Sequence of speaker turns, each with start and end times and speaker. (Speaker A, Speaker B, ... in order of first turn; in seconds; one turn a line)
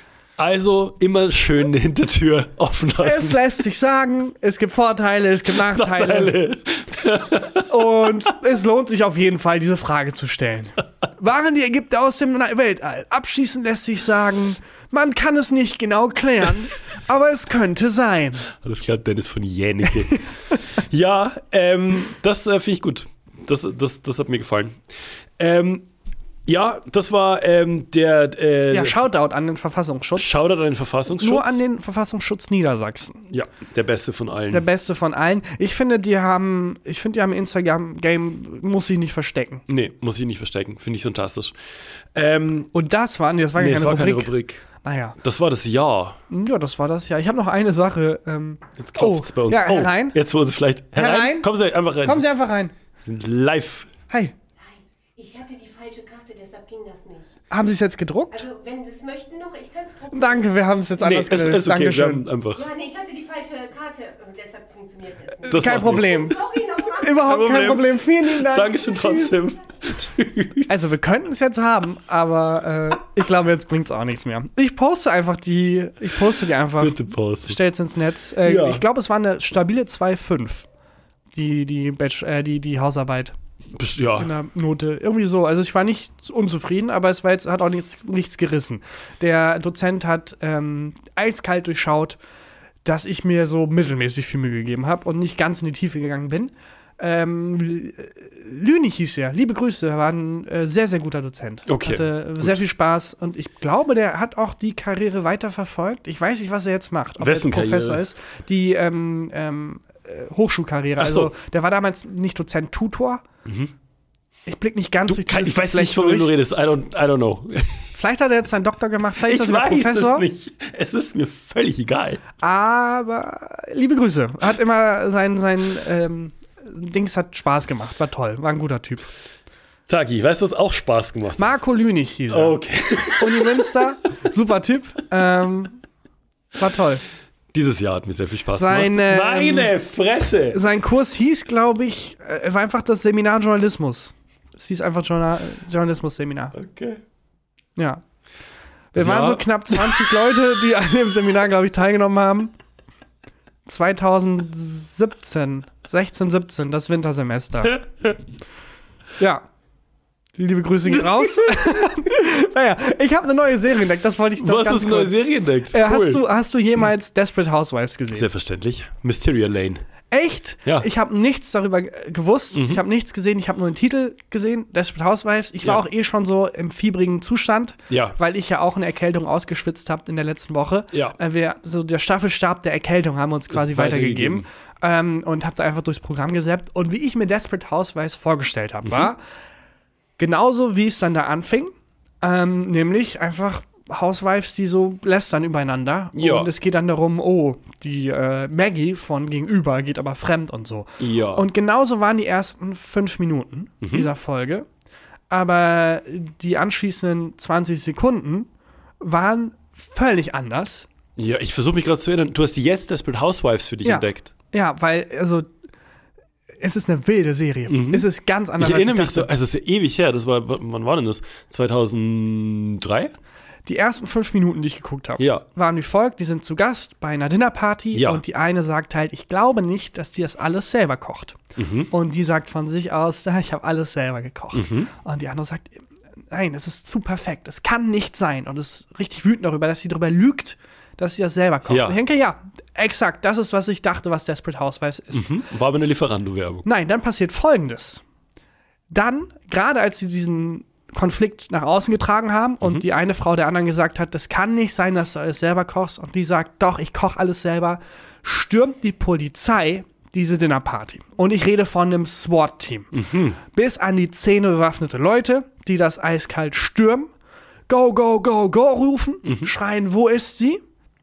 Speaker A: 0.4-3.4
Speaker B: 3.0-6.4
Speaker A: 5.5-7.7
Speaker B: 7.7-18.5
Speaker A: 18.6-24.8
Speaker B: 20.1-20.6
Speaker A: 25.4-25.9
Speaker A: 26.5-29.1
Speaker B: 28.7-30.4
Speaker A: 30.2-31.6
Speaker B: 31.2-33.2
Speaker A: 33.3-34.6
Speaker B: 34.5-39.6
Speaker A: 39.7-41.5
Speaker A: 42.1-42.7
Speaker B: 42.7-45.2
Speaker A: 43.6-44.6
Speaker A: 45.2-46.2
Speaker B: 46.3-50.2
Speaker A: 48.8-52.3
Speaker B: 51.0-51.5
Speaker B: 52.0-52.7
Speaker A: 53.0-53.9
Speaker C: 54.6-57.4
Speaker B: 57.5-58.5
Speaker C: 58.3-60.5
Speaker B: 60.1-62.2
Speaker A: 61.0-62.7
Speaker C: 62.5-67.8
Speaker A: 65.5-66.4
Speaker B: 65.5-66.4
Speaker B: 67.0-69.4
Speaker A: 67.2-70.8
Speaker B: 70.7-80.7
Speaker A: 76.8-77.6
Speaker A: 78.4-78.8
Speaker B: 81.3-83.3
Speaker A: 83.7-84.3
Speaker B: 84.2-92.2
Speaker B: 92.8-113.2
Speaker A: 101.7-102.6
Speaker A: 107.2-108.0
Speaker A: 111.0-111.3
Speaker A: 113.5-113.7
Speaker B: 114.5-116.3
Speaker A: 115.1-117.9
Speaker B: 117.9-120.3
Speaker A: 119.2-122.2
Speaker B: 122.4-129.1
Speaker A: 129.9-131.6
Speaker B: 131.4-135.8
Speaker A: 132.3-133.7
Speaker B: 136.6-137.0
Speaker A: 137.5-140.6
Speaker B: 138.5-139.7
Speaker B: 140.5-146.6
Speaker A: 146.6-147.0
Speaker B: 147.8-148.0
Speaker B: 148.9-152.5
Speaker A: 148.9-150.2
Speaker B: 153.7-157.8
Speaker A: 157.6-158.2
Speaker B: 159.2-159.4
Speaker B: 160.4-168.3
Speaker A: 160.9-161.5
Speaker A: 164.4-166.2
Speaker A: 168.1-169.8
Speaker B: 170.1-189.2
Speaker A: 172.5-172.8
Speaker A: 177.9-178.2
Speaker A: 180.9-181.2
Speaker A: 183.5-184.5
Speaker A: 188.8-189.1
Speaker B: 190.2-204.7
Speaker A: 196.2-196.5
Speaker A: 201.0-201.5
Speaker A: 203.8-204.1
Speaker B: 205.3-208.5
Speaker B: 209.0-210.9
Speaker A: 211.2-214.3
Speaker B: 213.8-215.5
Speaker B: 216.6-219.3
Speaker A: 217.7-218.1
Speaker A: 218.6-223.1
Speaker B: 223.7-231.4
Speaker A: 225.2-225.4
Speaker A: 227.9-228.2
Speaker A: 231.6-231.9
Speaker B: 231.9-245.3
Speaker A: 234.5-234.9
Speaker A: 241.7-242.0
Speaker A: 245.1-246.7
Speaker B: 246.7-248.0
Speaker B: 248.9-262.9
Speaker A: 262.9-263.4
Speaker B: 263.5-267.1
Speaker B: 267.7-270.6
Speaker A: 269.2-269.5